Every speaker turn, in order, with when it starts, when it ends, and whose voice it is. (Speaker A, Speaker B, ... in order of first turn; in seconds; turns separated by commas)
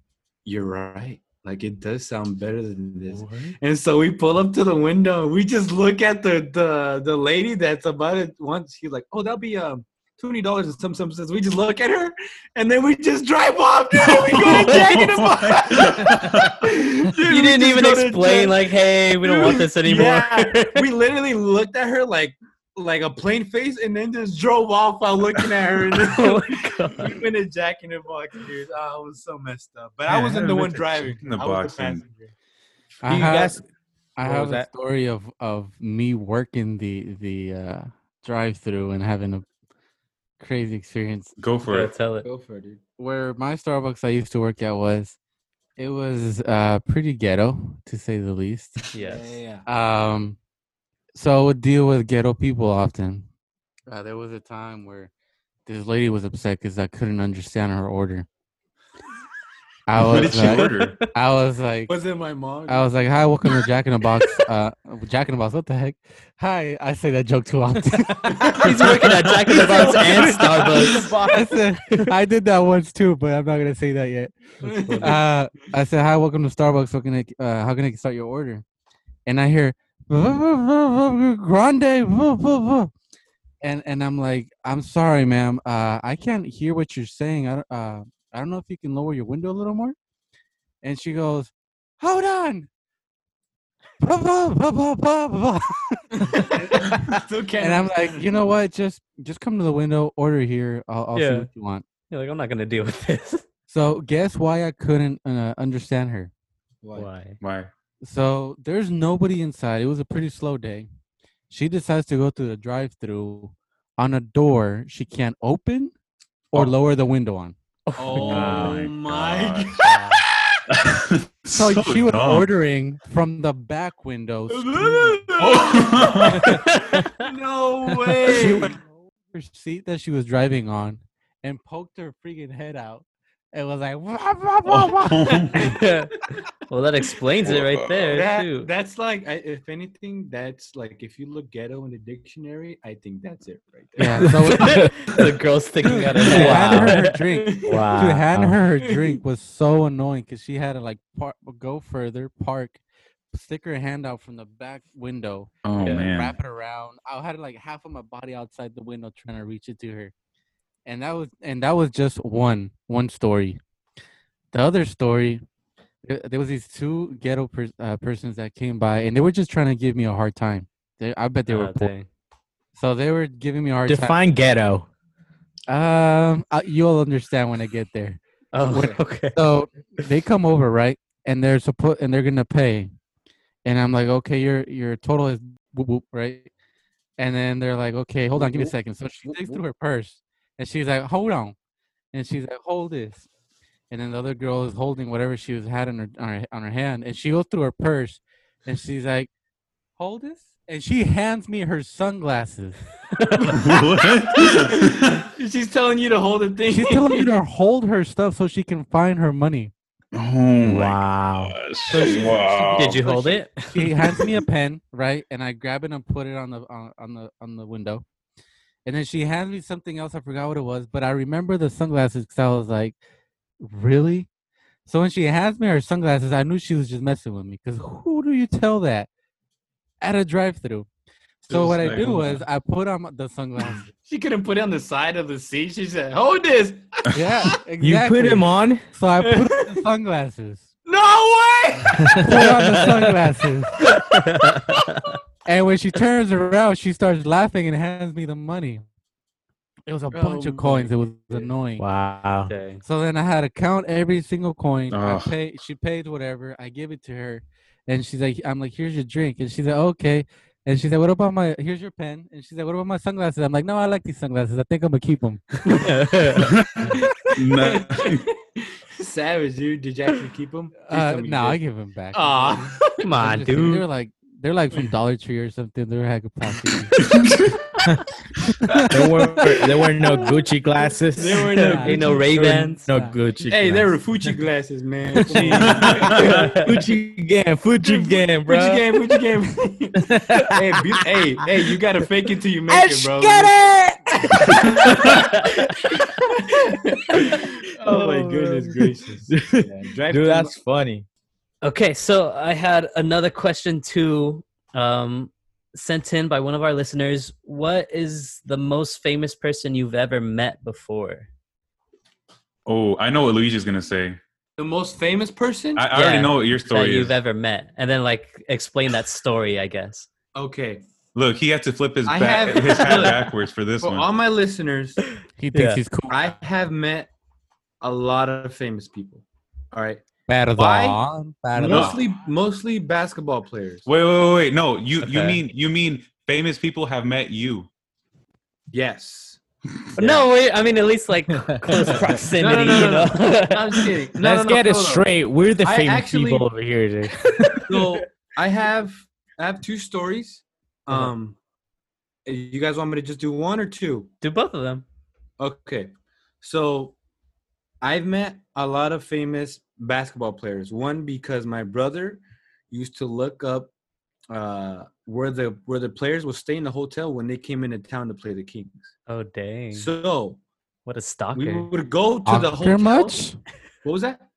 Speaker A: 0.5-18.6, Speaker B: 3.1-3.5, Speaker B: 14.2-16.7, Speaker C: 14.3-14.8, Speaker C: 17.2-20.9, Speaker A: 19.2-32.3, Speaker C: 26.1-27.2, Speaker B: 30.1-32.0, Speaker D: 33.0-33.6, Speaker E: 33.0-33.6, Speaker D: 34.2-39.5, Speaker E: 34.2-34.7, Speaker D: 40.4-41.3, Speaker B: 41.4-42.0, Speaker C: 41.7-42.3, Speaker A: 42.2-42.8, Speaker D: 43.0-45.2, Speaker D: 45.8-48.8, Speaker C: 48.9-49.3, Speaker A: 48.9-49.7, Speaker D: 49.7-50.4, Speaker D: 51.1-53.3, Speaker D: 53.9-55.1, Speaker D: 55.7-58.3, Speaker D: 59.9-61.9, Speaker B: 60.0-61.0, Speaker A: 61.9-63.0, Speaker D: 62.7-68.8, Speaker A: 68.4-68.8, Speaker C: 68.6-71.1, Speaker A: 69.5-71.1, Speaker E: 69.9-71.5, Speaker D: 71.3-74.4, Speaker C: 74.6-75.2, Speaker A: 74.6-75.2, Speaker D: 75.0-78.6, Speaker D: 79.3-82.9, Speaker D: 83.6-90.0, Speaker D: 90.8-92.7, Speaker D: 94.0-97.0, Speaker A: 96.2-98.5, Speaker D: 97.6-101.8, Speaker C: 101.1-101.5, Speaker C: 102.1-103.4, Speaker D: 103.7-106.3, Speaker A: 106.8-107.1, Speaker C: 107.0-107.4, Speaker B: 107.4-107.7, Speaker D: 108.0-110.9, Speaker D: 111.5-115.9, Speaker D: 116.5-117.5, Speaker C: 117.9-118.8, Speaker A: 118.0-120.6, Speaker B: 118.2-119.9, Speaker C: 119.8-120.2, Speaker B: 120.7-122.5, Speaker D: 121.5-125.2, Speaker A: 124.5-128.7, Speaker B: 125.4-126.5, Speaker C: 126.4-127.1, Speaker D: 128.3-135.4, Speaker B: 134.7-135.8, Speaker C: 135.6-138.7, Speaker B: 137.4-138.1, Speaker A: 138.1-144.5, Speaker D: 144.0-145.1, Speaker C: 144.4-147.0, Speaker E: 144.6-145.1, Speaker D: 146.2-160.1, Speaker E: 146.3-146.9, Speaker A: 147.3-147.9, Speaker C: 147.7-148.3, Speaker E: 147.7-148.6, Speaker B: 155.7-156.4, Speaker C: 155.8-156.1, Speaker D: 160.9-163.6, Speaker D: 164.5-165.4, Speaker D: 166.0-171.9, Speaker C: 171.5-172.1, Speaker D: 172.8-174.2, Speaker E: 173.9-174.9, Speaker D: 175.7-182.9, Speaker C: 178.5-179.4, Speaker A: 178.7-179.0, Speaker D: 183.7-186.5, Speaker D: 187.2-191.6, Speaker A: 188.4-189.6, Speaker D: 192.1-193.3, Speaker D: 193.9-199.3, Speaker D: 200.0-202.8, Speaker C: 203.2-203.5, Speaker A: 203.4-207.3, Speaker B: 203.5-205.2, Speaker D: 206.7-209.7, Speaker B: 210.1-213.1, Speaker E: 210.6-211.6, Speaker D: 211.9-218.0, Speaker C: 212.8-213.9, Speaker D: 218.8-223.0, Speaker D: 223.6-224.3, Speaker D: 224.9-229.1, Speaker D: 230.0-230.9, Speaker D: 231.5-233.9, Speaker B: 231.5-232.4, Speaker A: 233.6-237.5, Speaker D: 237.1-240.7, Speaker E: 237.8-238.9, Speaker A: 239.2-239.8, Speaker A: 240.9-242.9, Speaker D: 242.2-243.9, Speaker C: 243.8-245.2, Speaker D: 245.5-248.8, Speaker D: 249.9-251.8, Speaker A: 250.1-251.5, Speaker E: 251.8-252.5, Speaker C: 252.5-252.8, Speaker D: 252.8-265.8, Speaker B: 254.9-255.3, Speaker E: 265.7-266.5, Speaker B: 266.4-268.2, Speaker A: 267.6-268.2, Speaker A: 269.0-271.6, Speaker D: 270.9-277.0, Speaker A: 272.1-272.8, Speaker C: 273.0-273.9, Speaker B: 277.0-277.6, Speaker E: 278.9-283.9, Speaker A: 281.1-282.2, Speaker C: 281.4-282.9, Speaker D: 281.6-282.0, Speaker D: 282.9-283.1, Speaker A: 283.5-286.5, Speaker E: 285.2-288.9, Speaker B: 285.6-286.4, Speaker C: 286.2-286.7, Speaker A: 287.8-293.6, Speaker E: 290.0-290.5, Speaker E: 292.7-295.5, Speaker A: 294.3-295.3, Speaker A: 296.2-300.6, Speaker E: 297.1-298.7, Speaker E: 299.3-301.1, Speaker C: 301.6-311.3, Speaker B: 312.7-314.2, Speaker A: 314.6-315.9, Speaker B: 315.8-317.2, Speaker C: 315.9-320.1, Speaker A: 320.4-320.8, Speaker B: 321.1-324.1, Speaker A: 322.1-325.1, Speaker D: 325.4-326.2, Speaker C: 325.5-325.8, Speaker A: 326.1-327.1, Speaker A: 327.8-330.1, Speaker D: 330.3-332.0, Speaker A: 330.6-331.0, Speaker A: 331.6-333.9, Speaker B: 331.6-332.0, Speaker B: 333.9-337.7, Speaker C: 335.0-335.4, Speaker A: 338.7-339.4, Speaker A: 340.0-340.3, Speaker C: 340.0-343.9, Speaker E: 341.5-342.0, Speaker A: 342.4-345.1, Speaker E: 344.2-347.7, Speaker A: 345.6-346.5, Speaker A: 347.7-351.4, Speaker A: 352.3-354.1, Speaker C: 354.2-354.8, Speaker A: 355.4-357.0, Speaker A: 357.8-363.7, Speaker A: 364.3-368.9, Speaker C: 369.1-369.9, Speaker A: 369.7-370.4, Speaker C: 370.9-371.7, Speaker A: 371.3-373.2, Speaker D: 372.3-373.4, Speaker A: 373.8-374.2